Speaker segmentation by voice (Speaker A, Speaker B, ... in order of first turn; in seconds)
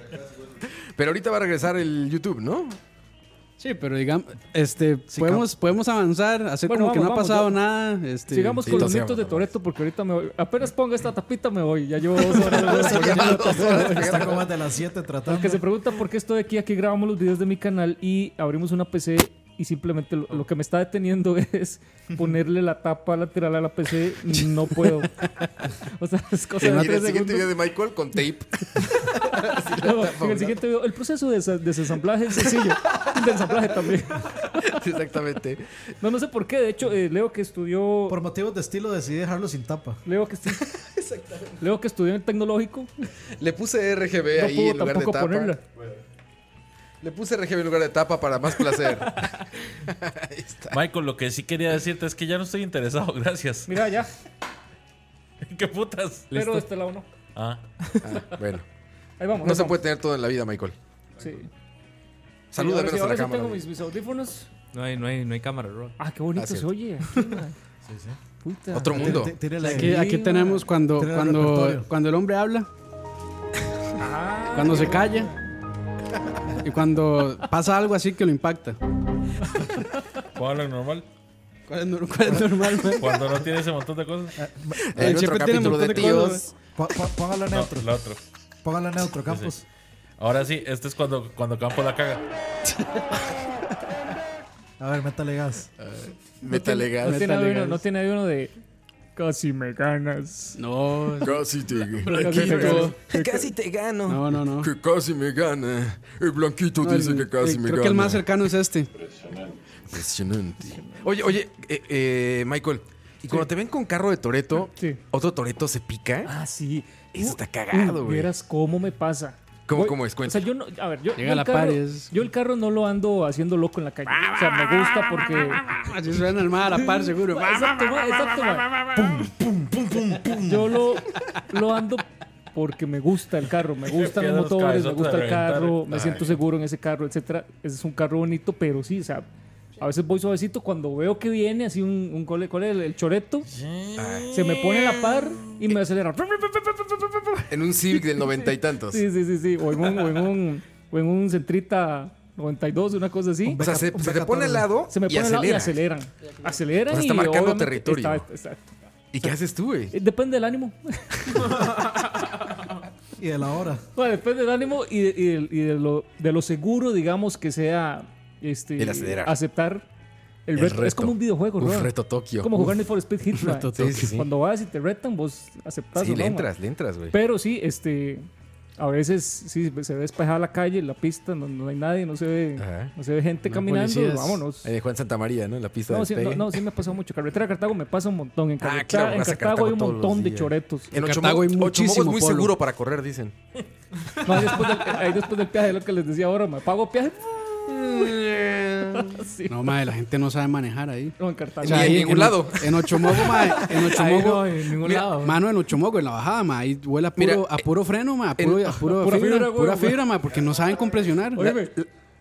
Speaker A: 0.9-2.8, 8.6-9.5, 12.2-14.5, 26.6-30.6, 34.5-35.7, 40.7-41.5, 43.3-45.6, 47.0-50.8, 58.0-58.7, 59.4-60.8, 62.5-63.6, 66.3-66.7, 68.7-69.4, 84.7-86.5, 95.8-97.3, 101.2-108.3, 109.9-116.3, 117.1-118.3, 119.7-120.5, 135.9-136.3, 144.0-144.8, 147.5-149.1, 153.6-155.8, 156.9-158.3, 159.1-159.9, 168.8-169.4, 170.6-172.8, 173.8-174.3, 176.0-177.1, 182.6-182.9, 184.6-186.6, 188.6-193.3, 197.6-199.2, 201.6-204.1, 204.8-205.2, 207.2-207.7, 208.4-208.9, 211.4-211.9
Speaker B: 3.6-8.9, 69.6-72.7, 74.5-75.3, 76.6-78.8, 81.7-83.1, 85.0-86.4, 96.5-97.8, 100.6-101.4, 102.1-103.0, 104.1-104.7, 106.8-108.9, 121.2-122.1, 125.7-127.8, 173.4-174.1, 183.4-184.4, 190.9-192.5, 199.5-204.5, 205.1-211.5
Speaker C: 5.1-5.5, 12.7-15.6, 38.1-40.0, 67.9-68.2, 68.9-70.0, 71.0-71.9, 84.4-86.0, 86.6-87.9, 88.6-89.6, 94.8-95.7, 153.4-154.7, 163.2-163.8
Speaker D: 6.6-7.6, 8.3-14.4, 15.3-25.2, 25.8-27.5, 29.2-34.5, 36.0-38.2, 40.1-40.7, 41.6-42.9, 44.4-45.6, 53.7-54.1, 56.3-57.1, 59.2-59.8, 61.2-61.5, 62.5-64.5, 66.0-67.5, 68.4-70.7, 74.0-75.4, 96.5-98.5, 99.2-100.6, 102.1-103.4, 114.7-115.0, 116.2-125.8, 126.8-128.9, 130.4-139.3, 139.8-143.5, 144.3-153.6, 154.9-158.7, 159.9-161.6, 164.0-169.9, 170.5-176.5, 177.1-184.7, 185.9-190.9, 194.2-197.6, 198.9-199.7, 201.2-202.3, 208.9-210.1, 211.3-211.7
Speaker E: 50.7-53.8, 55.4-56.3, 57.4-57.6, 80.3-81.1, 83.0-84.4, 87.5-88.2, 90.2-92.2, 109.1-109.5, 128.9-130.7, 133.9-136.1, 143.5-144.7
Speaker F: 56.3-56.7, 64.7-66.0, 203.6-205.4